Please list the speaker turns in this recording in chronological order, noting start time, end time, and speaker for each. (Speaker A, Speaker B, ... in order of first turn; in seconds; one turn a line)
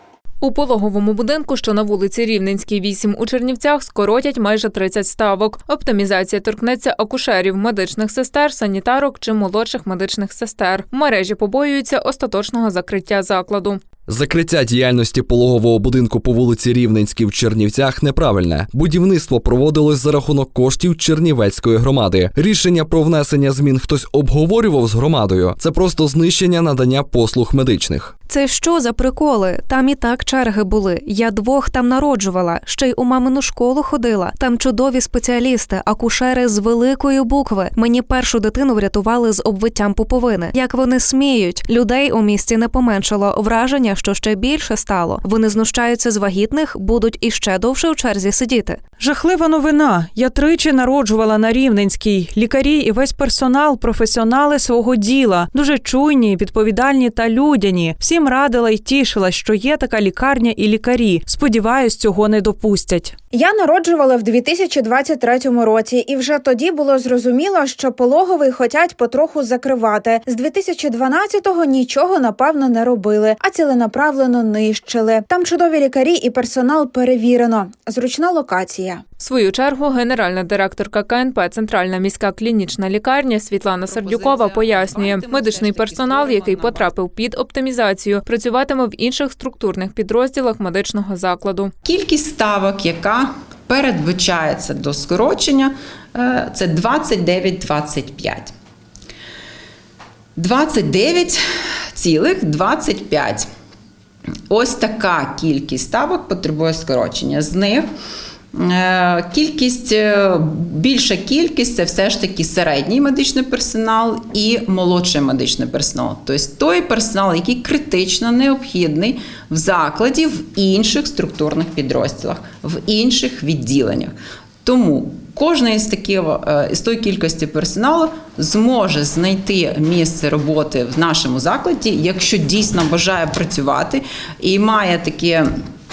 Speaker A: 0.4-13.8
Speaker B: 14.1-28.1
Speaker C: 28.3-48.8
Speaker D: 49.0-63.1
Speaker E: 63.3-79.0
Speaker A: 79.2-91.7
Speaker F: 83.8-86.9
Speaker F: 91.8-98.5
Speaker F: 100.4-101.4
Speaker F: 102.0-103.5
Speaker F: 104.5-107.9
Speaker F: 108.5-124.1
Speaker F: 124.7-135.5